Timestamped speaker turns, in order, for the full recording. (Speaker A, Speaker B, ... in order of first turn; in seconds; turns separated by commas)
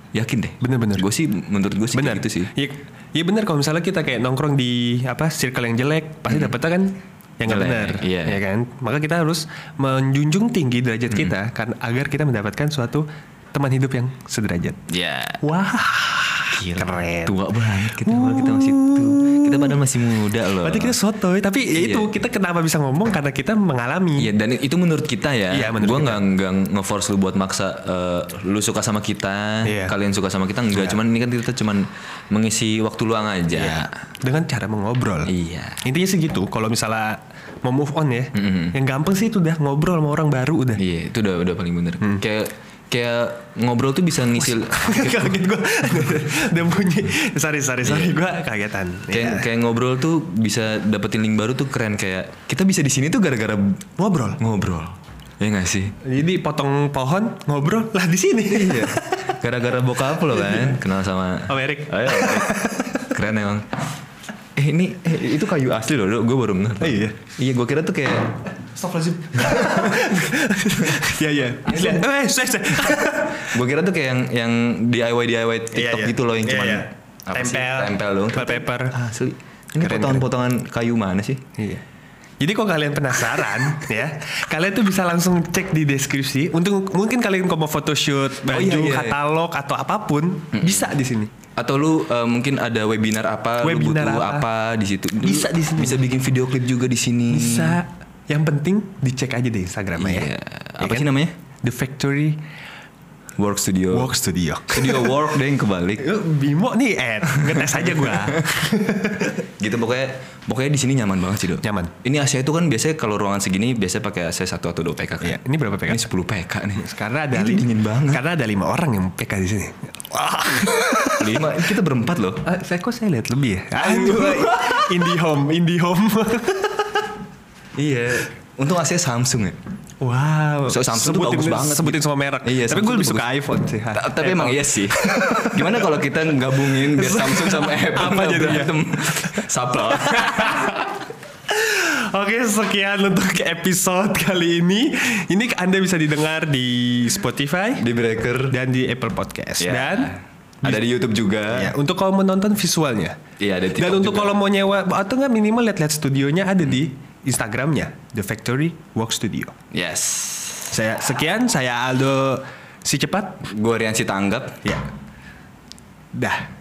Speaker A: 0.1-2.5, Speaker B: 0.6-1.1, Speaker B: 1.9-14.8, Speaker A: 6.3-6.5, Speaker A: 7.4-8.4, Speaker A: 14.9-15.4, Speaker B: 15.4-19.8, Speaker A: 16.6-20.9, Speaker B: 20.6-24.3, Speaker A: 21.7-22.1, Speaker A: 24.2-33.9, Speaker B: 25.5-26.2, Speaker B: 29.6-29.9, Speaker B: 30.7-31.0, Speaker B: 33.5-35.3, Speaker A: 35.3-35.8, Speaker B: 35.8-40.8, Speaker A: 38.4-38.8, Speaker A: 40.8-45.4, Speaker B: 44.4-49.5, Speaker A: 47.8-48.2, Speaker A: 49.1-53.8, Speaker B: 54.0-54.4, Speaker A: 54.4-56.0, Speaker B: 56.0-59.3, Speaker A: 58.5-63.6, Speaker B: 60.3-60.8, Speaker B: 61.5-63.1, Speaker A: 64.5-68.4, Speaker B: 66.8-67.2, Speaker B: 68.7-73.5, Speaker A: 69.4-70.0, Speaker A: 71.7-72.0, Speaker A: 73.3-81.4, Speaker B: 75.7-78.9, Speaker B: 79.8-80.3, Speaker B: 81.5-81.8, Speaker B: 82.4-91.3, Speaker A: 88.4-89.2, Speaker A: 90.5-90.9, Speaker A: 91.6-97.8, Speaker B: 93.6-94.5, Speaker B: 95.2-96.0, Speaker B: 97.3-102.4, Speaker A: 100.0-101.3, Speaker A: 103.4-104.1, Speaker B: 103.9-105.2, Speaker A: 104.7-106.0, Speaker B: 106.0-109.4, Speaker A: 107.4-108.4, Speaker A: 109.6-118.2, Speaker B: 111.6-111.9, Speaker B: 115.2-116.1, Speaker B: 116.8-121.6, Speaker A: 121.2-122.4, Speaker B: 122.4-127.1, Speaker A: 123.8-125.1, Speaker A: 127.8-129.6, Speaker B: 130.0-136.0, Speaker A: 130.7-133.3, Speaker A: 133.9-140.8, Speaker B: 136.6-140.8, Speaker B: 141.5-147.9, Speaker A: 147.8-148.6, Speaker B: 148.5-150.9, Speaker A: 149.6-151.7, Speaker B: 151.5-153.2, Speaker A: 153.4-154.4, Speaker B: 153.8-159.5, Speaker A: 159.7-160.8, Speaker B: 160.7-163.5, Speaker A: 163.4-164.6, Speaker B: 166.1-166.5